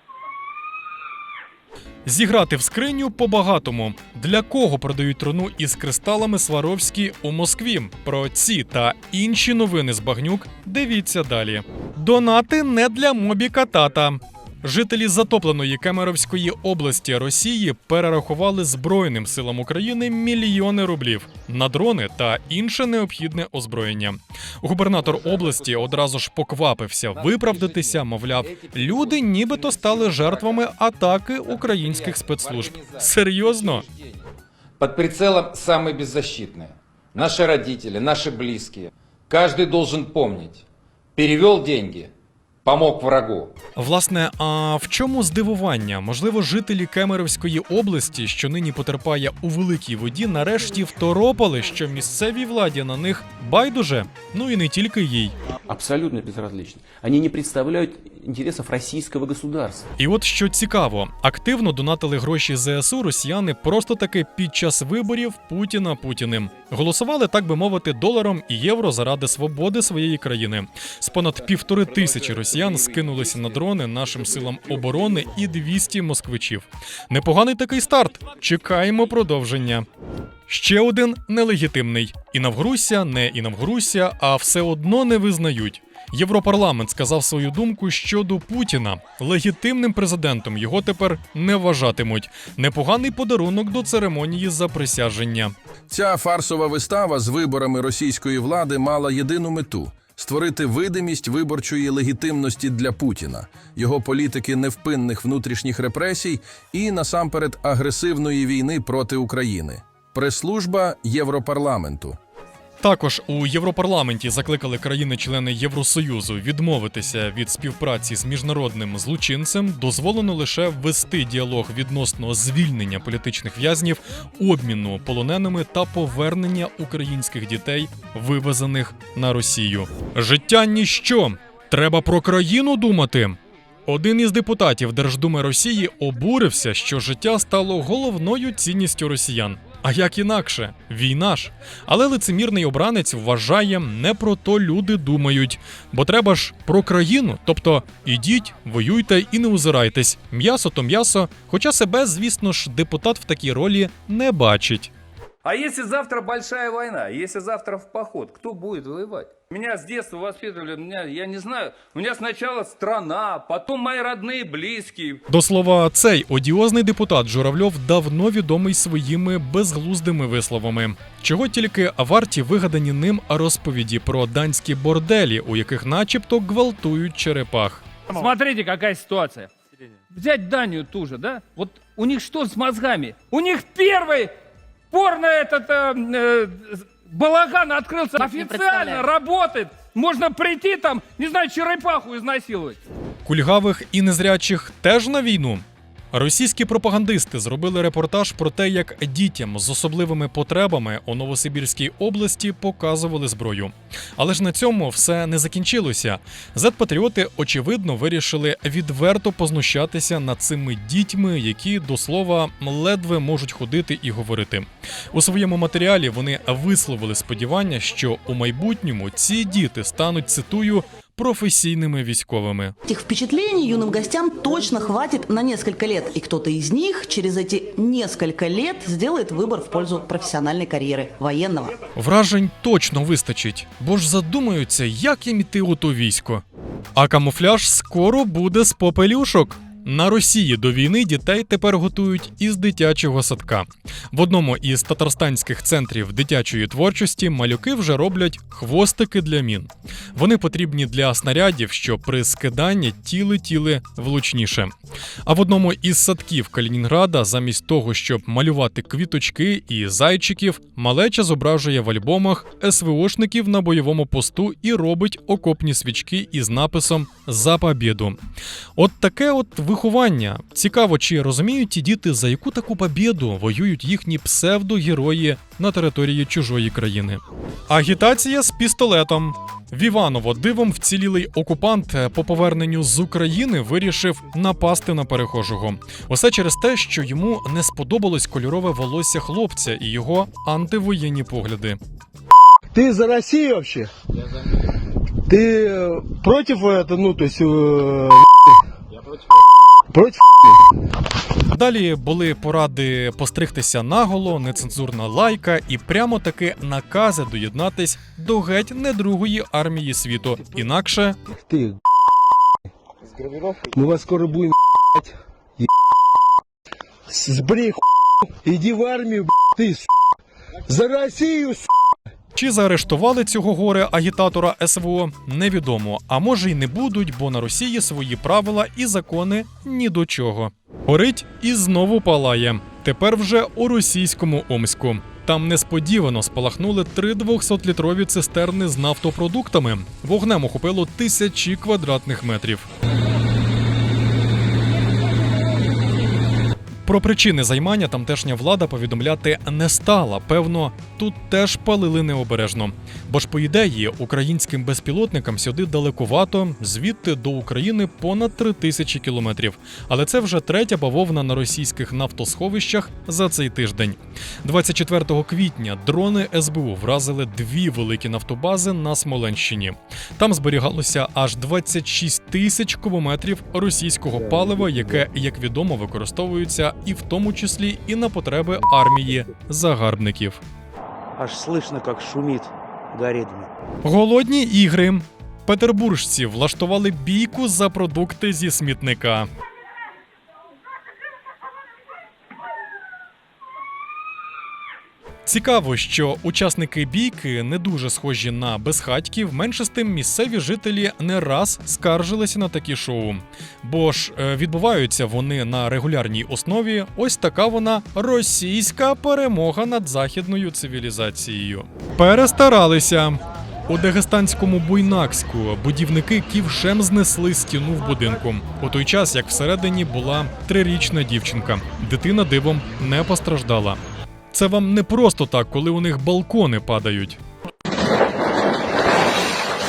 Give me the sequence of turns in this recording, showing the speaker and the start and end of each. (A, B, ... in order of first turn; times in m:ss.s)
0:02.0-0:33.8 A
0:25.0-0:25.9 B
0:27.1-0:30.6 B
0:31.4-0:34.3 B
0:34.8-0:40.6 B
0:41.2-0:42.1 B
0:42.6-0:43.5 B
0:43.8-0:55.3 A
0:55.7-0:59.8 C
1:00.0-1:19.8 A
1:12.5-1:13.5 B
1:20.5-1:35.5 A
1:35.9-1:52.2 D
1:52.8-2:34.9 A
2:35.4-2:45.2 E
2:45.3-2:57.8 A
2:58.1-2:59.5 E
3:00.1-3:04.3 E
3:04.9-3:12.8 E
3:13.2-3:42.7 A
3:42.8-3:51.8 F
3:52.0-3:56.4 A
3:57.0-4:14.7 A
4:15.2-4:28.2 A
4:28.8-4:51.8 A
4:52.7-4:53.9 G
4:55.2-4:58.5 G
4:59.9-5:00.6 G
5:01.5-5:11.2 A
5:11.3-5:11.8 G
5:13.6-5:15.7 G
5:17.1-5:19.9 G
5:20.7-5:21.7 G
5:22.3-5:42.7 A
5:46.8-6:20.4 A
6:14.4-6:14.7 H
6:21.2-6:23.5 H
6:23.8-6:29.3 A
6:35.2-7:03.8 A
7:04.3-7:07.2 A